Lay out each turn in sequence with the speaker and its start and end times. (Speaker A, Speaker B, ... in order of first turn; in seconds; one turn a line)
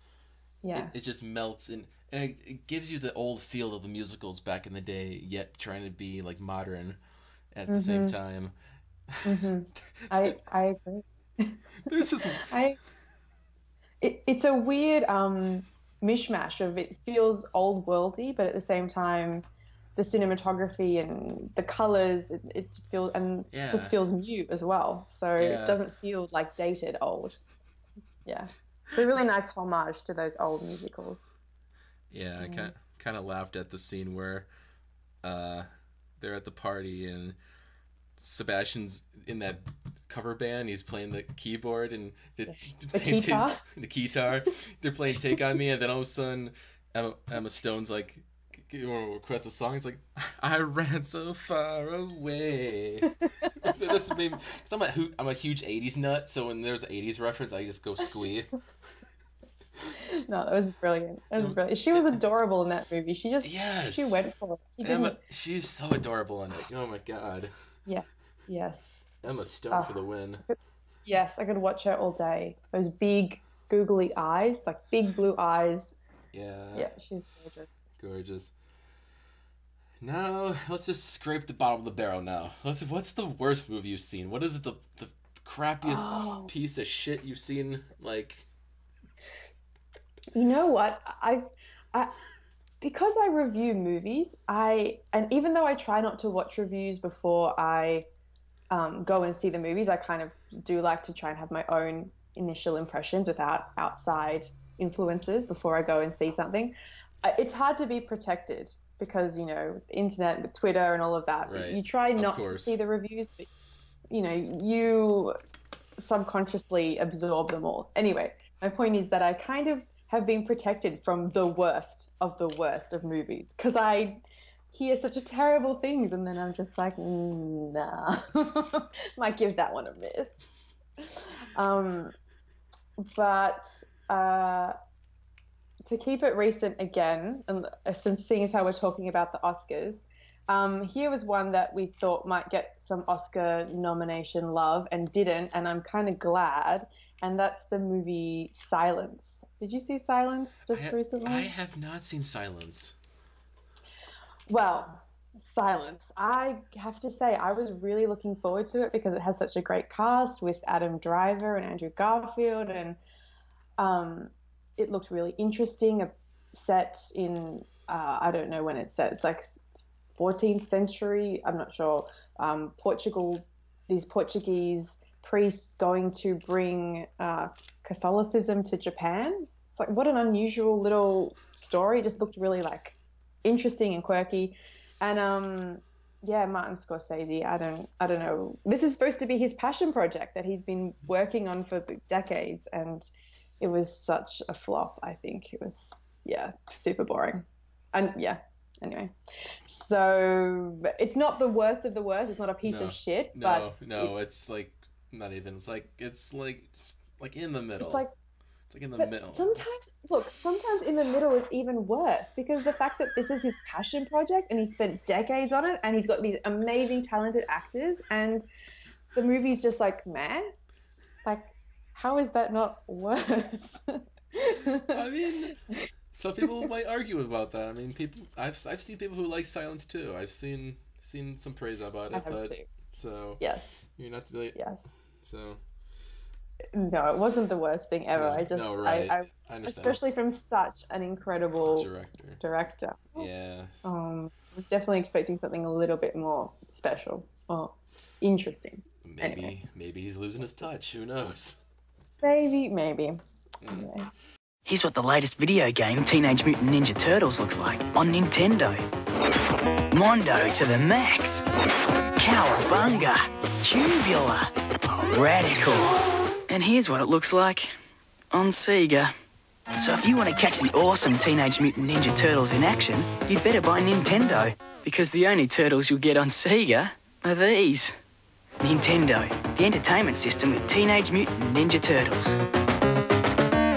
Speaker A: 0.6-0.9
Speaker B: 0.7-7.0
Speaker B: 7.5-8.5
Speaker A: 7.7-8.2
Speaker B: 9.1-9.4
Speaker A: 9.2-12.8
Speaker B: 10.0-10.4
Speaker B: 11.9-12.6
Speaker A: 14.0-19.4
Speaker A: 20.0-27.4
Speaker B: 23.5-24.0
Speaker B: 25.4-25.8
Speaker A: 28.2-31.2
Speaker B: 32.1-34.5
Speaker A: 32.4-32.7
Speaker B: 35.2-35.7
Speaker B: 36.2-37.4
Speaker B: 38.2-58.6
Speaker A: 42.5-43.6
Speaker A: 59.9-65.2
Speaker B: 61.4-62.2
Speaker B: 63.4-64.2
Speaker B: 64.8-67.5
Speaker A: 67.9-69.0
Speaker B: 69.2-70.4
Speaker A: 69.7-76.0
Speaker B: 76.3-76.9
Speaker A: 76.8-77.8
Speaker B: 78.0-78.5
Speaker B: 80.0-88.5
Speaker A: 85.8-86.5
Speaker A: 90.3-92.2
Speaker A: 92.8-98.0
Speaker A: 98.7-113.5
Speaker B: 111.5-112.8
Speaker A: 114.1-115.3
Speaker A: 116.0-124.2
Speaker A: 124.7-132.1
Speaker A: 133.0-134.8
Speaker A: 135.9-151.5
Speaker B: 150.7-152.9
Speaker A: 154.5-163.0
Speaker A: 163.8-169.6
Speaker A: 170.2-193.1
Speaker A: 193.6-204.1
Speaker B: 202.6-208.1
Speaker A: 207.8-208.1
Speaker B: 208.7-209.6
Speaker A: 209.0-218.5
Speaker A: 219.2-220.5
Speaker A: 221.2-225.5
Speaker B: 224.9-225.6
Speaker B: 226.1-234.6
Speaker A: 232.1-232.7
Speaker A: 233.4-233.7
Speaker A: 234.6-234.9
Speaker B: 235.1-235.6
Speaker A: 236.7-241.9
Speaker B: 238.2-240.0
Speaker B: 241.6-242.4
Speaker A: 242.4-243.3
Speaker B: 243.2-243.8
Speaker A: 243.8-249.6
Speaker B: 249.0-251.6
Speaker A: 252.2-254.1
Speaker B: 253.6-253.9
Speaker C: 254.7-258.9
Speaker C: 259.9-261.4
Speaker C: 262.2-265.9
Speaker C: 266.5-267.7
Speaker C: 268.3-269.1
Speaker C: 269.8-277.9
Speaker C: 278.6-282.4